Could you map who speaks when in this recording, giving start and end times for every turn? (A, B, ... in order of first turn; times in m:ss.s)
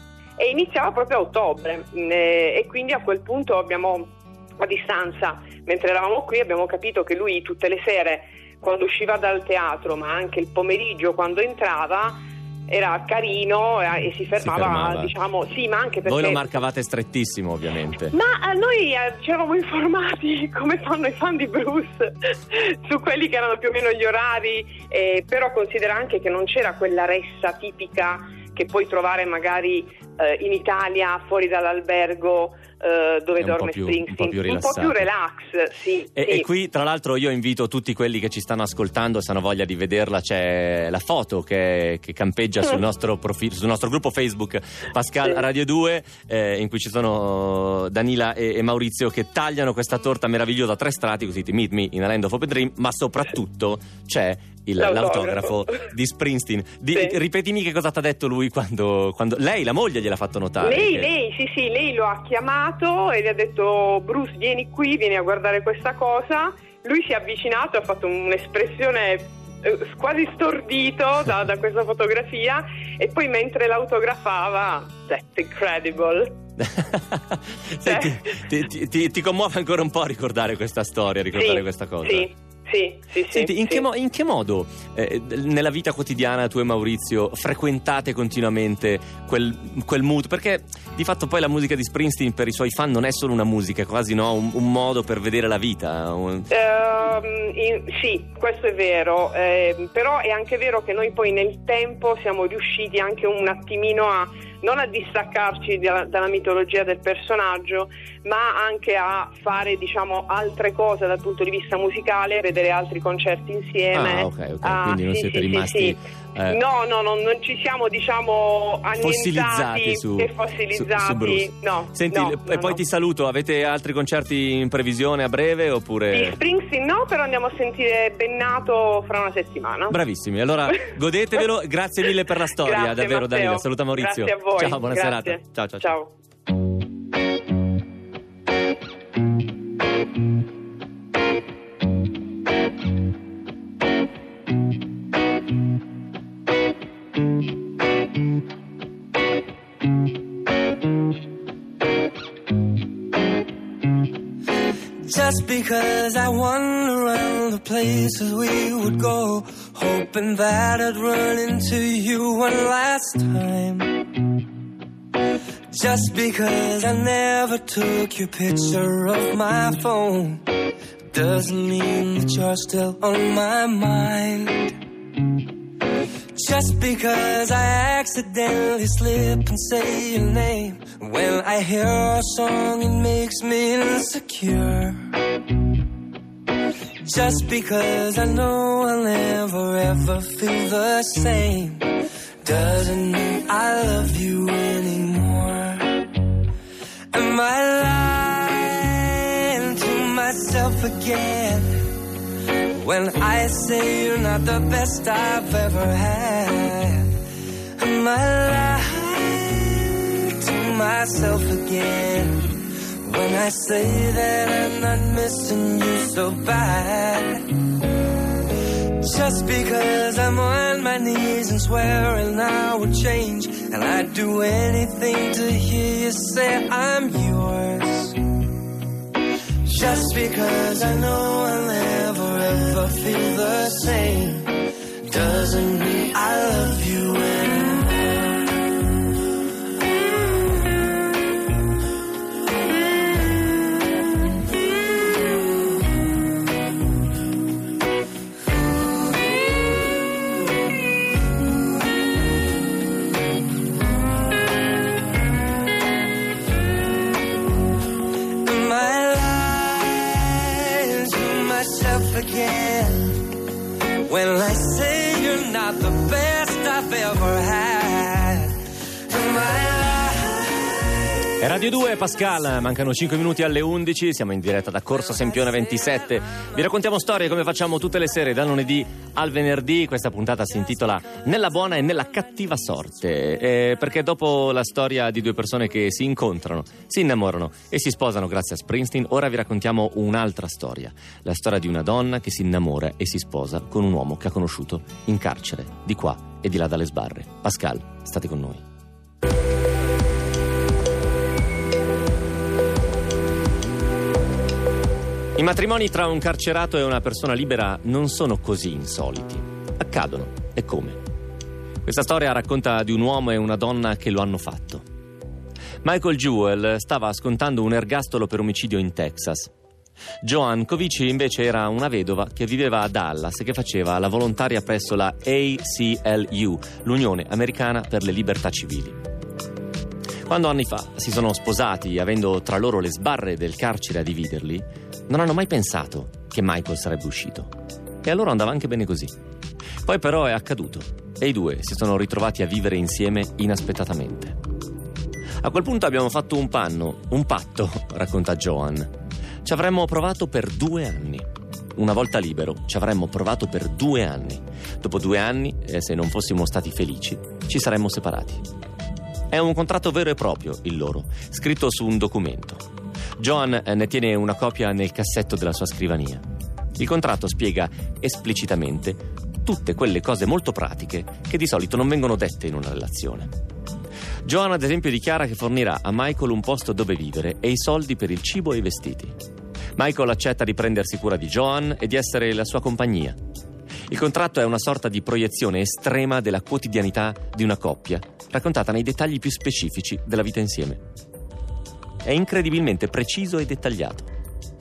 0:00.4-0:16.5 A
0:14.4-0:15.1 B
0:16.0-0:18.1 B
0:18.1-0:36.5 A
0:33.4-0:35.1 B
0:36.2-1:01.1 B
0:54.8-0:55.8 A
1:00.6-1:16.3 A
1:16.6-1:22.3 B
1:17.8-1:18.3 A
1:21.4-1:23.8 A
1:23.3-1:36.5 B
1:36.5-2:02.8 A
1:53.9-1:56.6 B
1:59.0-2:06.4 B
2:06.1-2:10.0 A
2:09.9-2:15.9 B
2:12.6-2:16.1 A
2:35.0-2:44.1 C
2:45.7-2:50.4 C
2:51.1-2:54.8 C
2:56.3-3:05.1 C
3:07.0-3:16.1 C
3:17.1-3:21.9 C
3:22.7-3:27.1 C
3:27.8-3:37.6 C
3:39.0-3:48.4 C
3:49.6-3:54.5 C
3:55.0-3:58.5 C
4:18.4-4:23.2 C
4:24.1-4:31.2 C
4:31.4-4:58.6 B
5:05.4-5:11.0 B
5:11.8-5:14.8 B
5:15.8-5:19.5 B
5:20.2-5:29.0 B
5:30.3-5:37.5 B
5:38.0-5:39.1 B
5:39.8-5:44.4 B
5:45.4-5:48.9 B
5:49.4-5:58.4 B
5:59.3-6:02.6 B
6:03.2-6:06.2 B
6:06.8-6:13.3 B
6:14.2-6:19.2 B
6:19.8-6:23.2 B
6:23.9-6:30.8 B
6:32.0-6:34.1 B